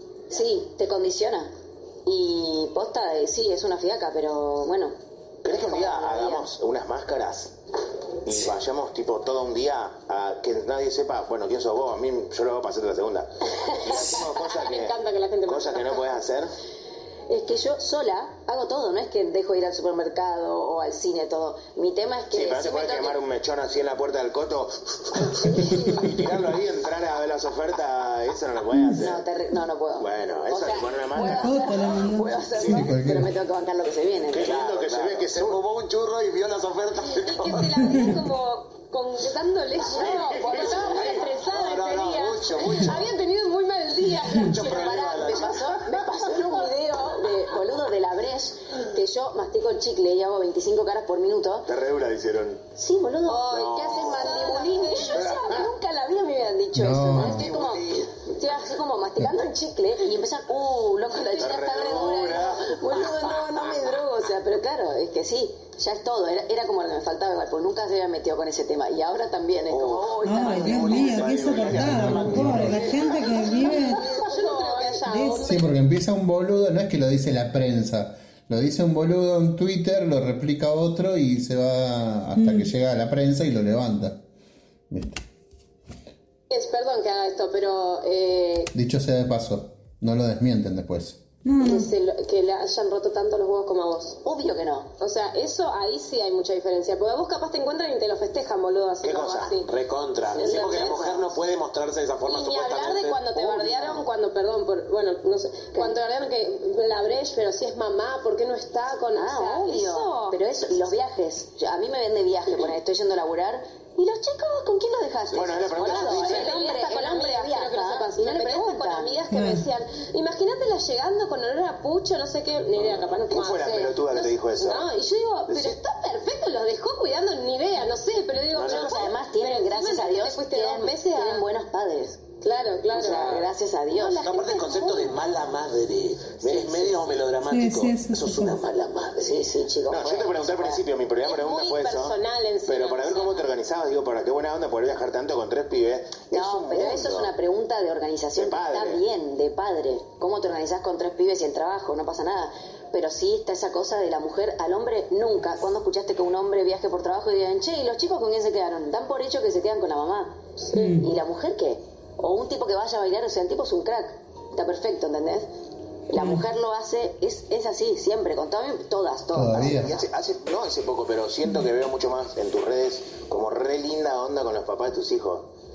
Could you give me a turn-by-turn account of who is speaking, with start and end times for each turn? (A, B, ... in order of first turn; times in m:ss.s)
0:00.3-0:01.5 A
0:02.0-0:04.9 A
0:05.4-0:07.5 B
0:05.5-0:06.4 A
0:08.2-0:16.5 B
0:13.9-0:16.2 C
0:17.3-0:23.2 A
0:22.3-0:29.2 B
0:25.5-0:26.2 A
0:29.0-0:34.5 A
0:30.0-0:31.6 B
0:31.1-0:32.4 D
0:32.6-0:32.9 E
0:32.7-0:33.3 F
0:34.3-0:35.6 B
0:34.4-0:38.0 E
0:37.1-0:46.7 C
0:39.9-0:41.2 A
0:39.9-0:43.1 E
0:44.3-0:45.8 E
0:44.6-0:51.7 A
0:51.7-0:52.6 B
0:52.8-1:11.2 A
0:53.2-0:55.6 C
0:53.5-0:54.2 B
0:53.7-0:54.0 E
0:54.9-0:55.7 B
0:56.7-0:57.5 F
0:57.2-0:58.1 B
1:01.1-1:01.6 C
1:01.4-1:02.8 B
1:09.7-1:14.2 E
1:10.2-1:14.0 D
1:10.4-1:13.4 B
1:11.7-1:12.8 F
1:13.5-1:15.7 C
1:14.0-1:15.0 A
1:15.0-1:15.6 D
1:15.4-1:24.2 F
1:22.4-1:22.7 D
1:24.9-1:25.2 F
1:26.5-1:28.7 C
1:28.7-1:31.2 F
1:31.4-1:31.9 D
1:31.6-1:34.2 C
1:34.2-1:34.9 A
1:35.0-1:39.7 C
1:39.0-1:39.5 B
1:39.5-1:44.0 E
1:40.3-1:41.3 A
1:40.3-1:41.2 C
1:42.2-1:50.4 C
1:49.1-1:59.2 A
1:55.3-1:56.6 B
1:55.5-1:56.2 E
1:55.8-2:11.5 C
1:59.3-1:59.6 D
2:02.9-2:04.9 B
2:05.5-2:05.8 B
2:08.5-2:09.1 E
2:08.6-2:12.2 A
2:12.4-2:13.4 C
2:12.9-2:19.5 E
2:12.9-2:14.3 A
2:14.1-2:15.2 C
2:16.4-2:16.9 A
2:17.4-2:18.6 D
2:19.2-2:20.8 A
2:19.9-2:27.3 B
2:21.2-2:23.5 C
2:26.3-2:40.4 A
2:28.4-2:29.0 B
2:40.7-2:41.0 C
2:40.7-2:41.1 D
2:40.9-2:45.5 A
2:46.1-2:50.0 A
2:46.2-2:46.4 D
2:49.3-2:49.9 F
2:49.6-2:55.5 B